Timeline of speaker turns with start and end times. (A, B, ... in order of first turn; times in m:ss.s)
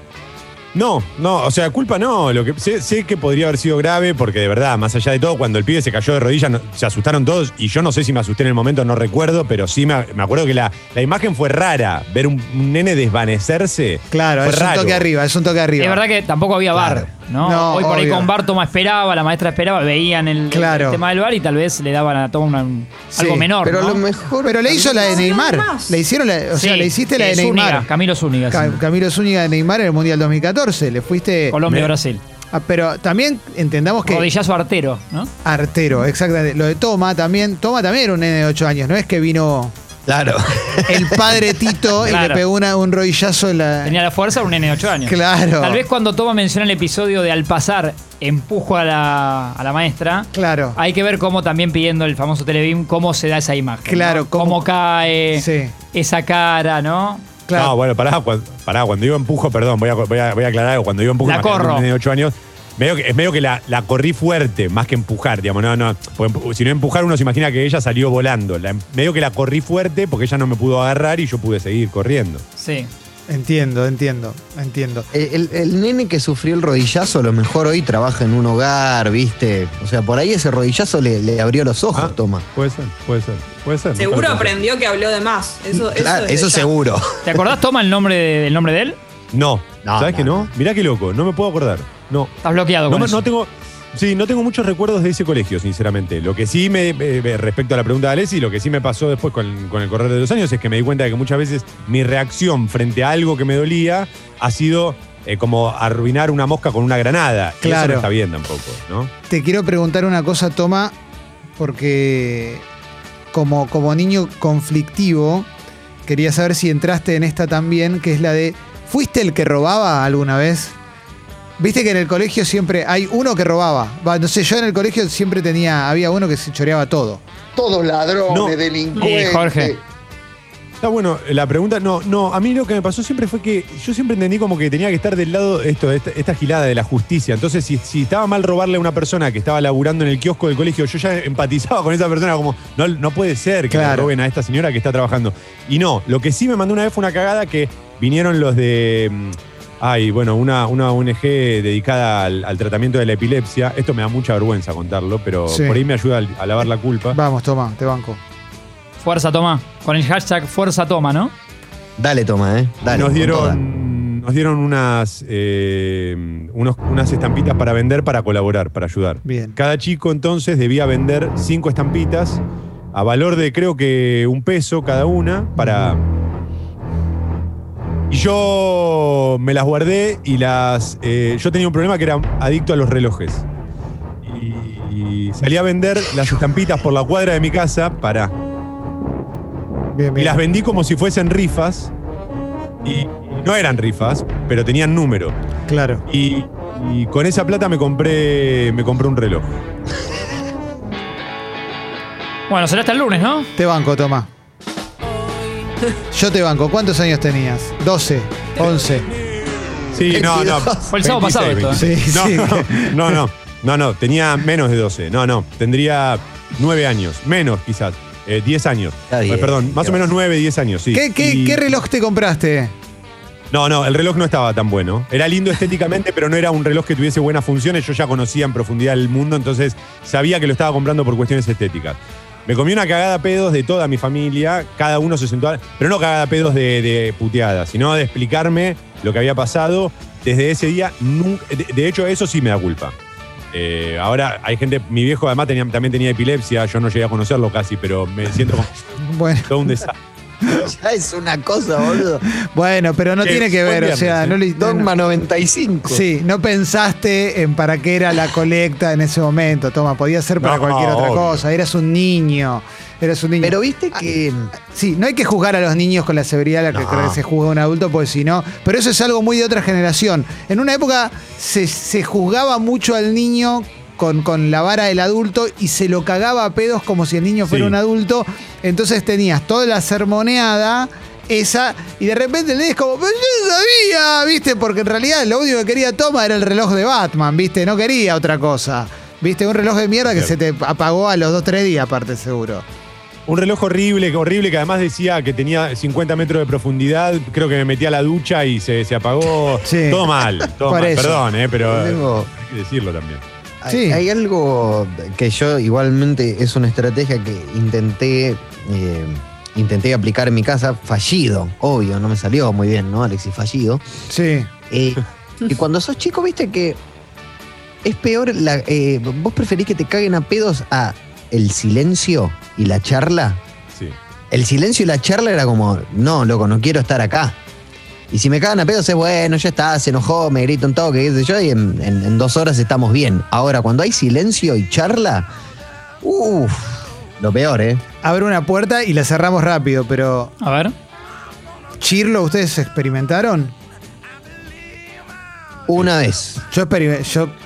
0:00.7-0:15.1 A
0:14.1-0:16.0 B
0:15.8-0:24.0 C
0:16.7-0:17.1 D
0:17.4-0:18.3 B
0:20.5-0:21.0 B
0:23.2-0:23.5 B
0:23.6-0:25.3 D
0:24.4-0:27.9 B
0:25.0-0:26.0 E
0:26.5-0:28.8 C
0:28.5-0:31.6 B
0:31.5-0:32.2 C
0:31.7-0:31.9 A
0:32.5-0:34.3 B
0:34.1-0:35.3 C
0:35.4-0:39.7 B
0:40.1-0:41.8 D
0:40.9-0:44.0 B
0:42.0-0:42.4 C
0:43.8-0:57.3 C
0:45.1-0:45.8 B
0:50.3-0:50.8 B
0:53.9-0:54.6 B
0:55.3-0:55.7 B
0:57.5-0:57.7 B
0:57.5-1:12.4 A
1:01.2-1:01.9 C
1:12.6-1:12.9 C
1:13.3-1:15.1 B
1:15.1-1:22.4 D
1:22.0-1:24.6 A
1:24.0-1:26.7 E
1:25.7-1:27.5 D
1:27.3-1:29.0 C
1:29.3-1:32.3 A
1:29.8-1:30.5 D
1:32.4-1:33.2 C
1:32.9-1:49.1 A
1:47.6-1:48.1 B
1:49.3-1:51.0 B
1:51.6-1:52.6 B
1:53.3-1:55.5 B
1:56.1-2:00.8 B
2:01.6-2:07.2 B
2:07.6-2:09.8 F
2:08.3-2:08.6 A
2:09.0-2:09.7 C
2:10.8-2:37.2 A
2:23.7-2:24.1 B
2:35.5-2:35.8 B
2:37.1-2:38.2 B
2:39.0-2:41.3 C
2:42.0-2:43.6 D
2:42.9-2:52.4 A
2:49.2-2:49.6 B
2:52.9-2:56.0 A
2:55.6-2:56.0 B
2:58.1-3:03.4 A
3:04.2-3:08.3 A
3:09.9-3:10.4 B
3:10.2-3:11.9 A
3:12.8-3:15.4 A
3:15.7-3:16.0 B
3:16.1-3:19.6 A
3:22.5-3:23.5 C
3:23.6-3:24.3 B
3:26.1-3:29.1 B
3:29.9-3:41.7 A
3:30.1-3:30.9 D
3:30.9-3:31.8 C
3:31.8-3:33.2 B
3:39.1-3:40.1 D
3:40.9-3:42.7 B
3:43.5-4:03.0 A
4:03.5-4:08.8 A
4:09.0-4:09.8 B
4:09.5-4:10.0 A
4:10.6-4:12.2 D
4:12.4-4:14.9 B
4:13.2-4:14.4 A
4:14.6-4:16.0 D
4:15.9-4:24.1 B
4:20.4-4:21.4 A
4:23.4-4:24.5 D
4:24.6-4:52.6 B
4:26.7-4:27.2 D
4:37.5-4:37.8 A
4:50.1-4:50.3 A
4:53.3-5:03.2 A
4:59.6-5:00.1 B
5:00.6-5:01.2 B
5:01.6-5:02.3 D
5:03.6-5:13.8 D
5:03.7-5:04.0 B
5:14.1-5:14.5 B
5:14.7-5:16.8 D
5:17.8-5:23.4 D
5:24.3-5:27.4 D
5:28.1-5:35.3 D
5:36.0-5:37.8 D
5:38.0-5:40.3 B
5:40.4-5:40.7 C
5:41.8-5:43.5 B
5:45.7-5:46.4 D
5:46.5-5:47.3 B